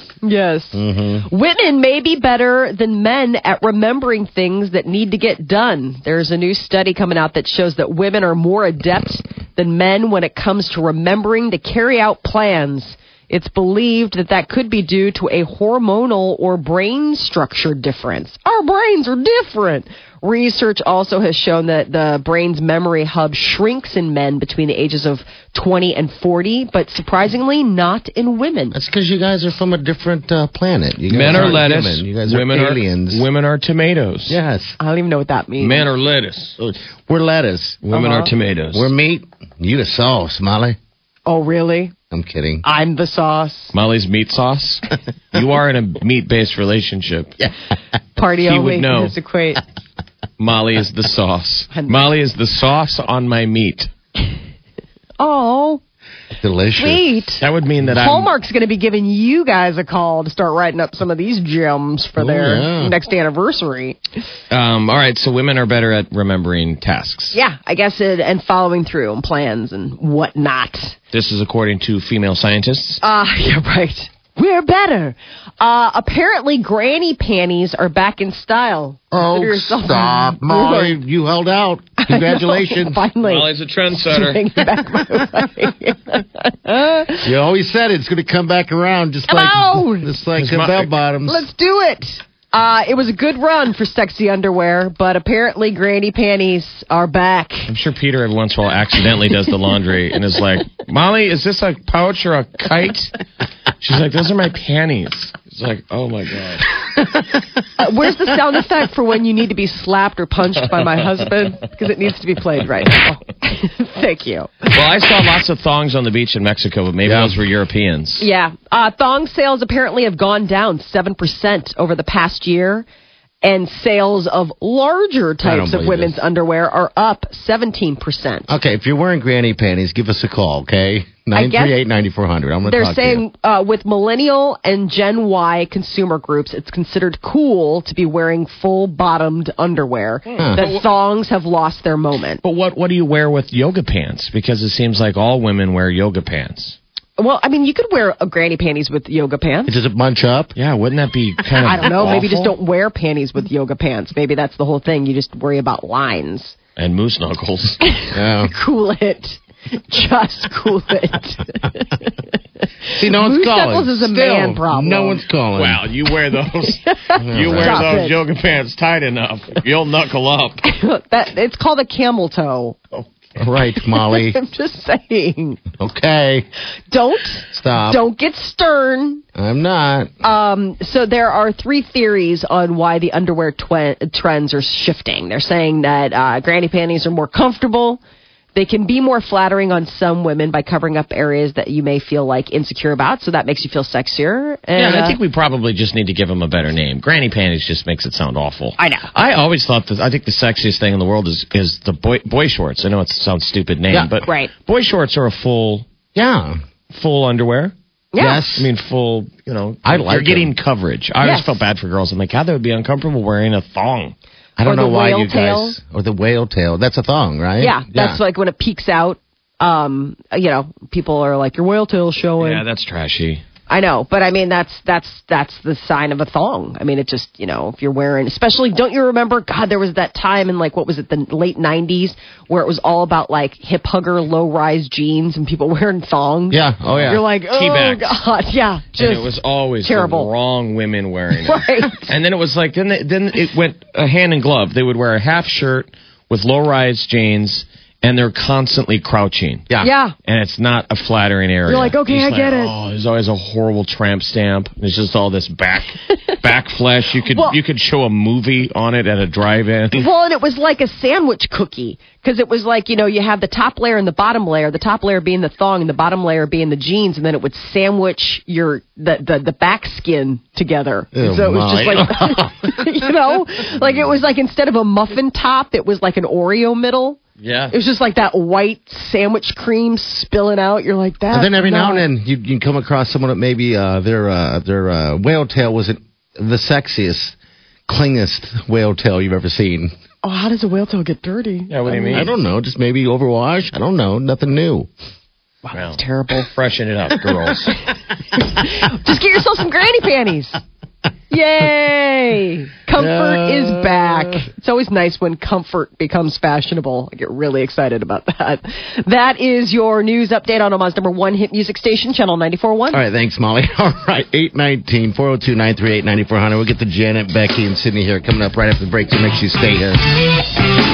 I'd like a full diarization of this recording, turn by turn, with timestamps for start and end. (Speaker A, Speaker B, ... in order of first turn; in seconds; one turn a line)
Speaker A: 0.2-28.8
Speaker B: 0.7-1.3
Speaker B: 28.7-33.3
Speaker C: 31.1-34.4
Speaker B: 34.3-34.8
Speaker A: 34.8-35.9
Speaker C: 35.6-36.6
Speaker B: 36.6-40.8
Speaker C: 37.9-38.9
Speaker A: 41.3-41.9
Speaker B: 42.1-42.6
Speaker A: 42.6-43.7
Speaker C: 43.7-47.4
Speaker A: 48.2-49.6
Speaker C: 48.4-49.1
Speaker C: 50.4-53.9
Speaker A: 51.7-52.0
Speaker A: 55.2-55.8
Speaker B: 56.4-57.0
Speaker A: 56.8-64.0
Speaker C: 57.4-58.3
Speaker B: 62.2-63.0
Speaker C: 64.5-67.4
Speaker A: 67.3-71.0
Speaker C: 71.1-73.0
Speaker A: 73.0-81.0
Speaker B: 79.1-83.0
Speaker A: 82.0-83.5
Speaker C: 83.2-84.5
Speaker A: 84.0-87.3
Speaker B: 87.2-91.5
Speaker A: 89.3-90.1
Speaker C: 90.4-90.9
Speaker A: 91.3-97.7
Speaker C: 97.7-103.2
Speaker C: 103.8-106.7
Speaker A: 107.8-114.5
Speaker C: 114.7-118.3
Speaker B: 117.0-117.4
Speaker A: 118.2-122.9
Speaker A: 123.4-128.5
Speaker B: 125.4-126.2
Speaker B: 128.5-133.2
Speaker A: 131.3-131.8
Speaker A: 132.7-142.4
Speaker C: 140.3-140.9
Speaker B: 140.4-140.6
Speaker C: 142.4-146.8
Speaker A: 147.2-149.8
Speaker B: 149.7-150.6
Speaker C: 150.6-152.5
Speaker A: 151.6-156.6
Speaker C: 156.8-157.8
Speaker A: 157.8-162.1
Speaker B: 158.1-158.5
Speaker A: 162.8-165.2
Speaker B: 163.0-165.8
Speaker C: 165.6-170.6
Speaker A: 166.7-168.2
Speaker B: 167.2-168.0
Speaker A: 170.6-172.8
Speaker B: 173.4-174.4
Speaker A: 173.9-175.6
Speaker B: 175.8-176.5
Speaker A: 176.9-179.2
Speaker B: 177.5-178.0
Speaker B: 179.3-180.1
Speaker A: 180.2-188.0
Speaker A: 188.6-195.2
Speaker C: 194.8-205.9
Speaker A: 198.8-199.1
Speaker A: 204.2-204.5
Speaker B: 206.2-206.6
Speaker C: 206.9-207.7
Speaker A: 208.1-208.4
Speaker B: 208.2-208.7
Speaker C: 208.6-214.2
Speaker B: 209.8-210.5
Speaker A: 211.2-211.6
Speaker B: 214.6-218.2
Speaker A: 214.6-215.8
Speaker A: 217.6-222.6
Speaker C: 222.4-223.4
Speaker A: 223.7-240.3
Speaker B: 236.5-237.2
Speaker C: 236.9-238.2
Speaker C: 239.0-249.7
Speaker A: 241.4-242.1
Speaker A: 249.8-250.2
Speaker C: 250.3-260.1
Speaker A: 251.7-252.7
Speaker A: 257.3-257.6
Speaker A: 259.9-282.1
Speaker B: 271.1-272.9
Speaker C: 277.4-277.7
Speaker B: 281.3-287.4
Speaker B: 287.9-289.9
Speaker A: 290.2-292.2
Speaker C: 291.7-292.3
Speaker B: 292.1-294.9
Speaker A: 295.6-296.5
Speaker C: 295.7-297.8
Speaker A: 298.4-300.6
Speaker A: 301.3-313.0
Speaker B: 303.0-304.4
Speaker B: 312.9-320.1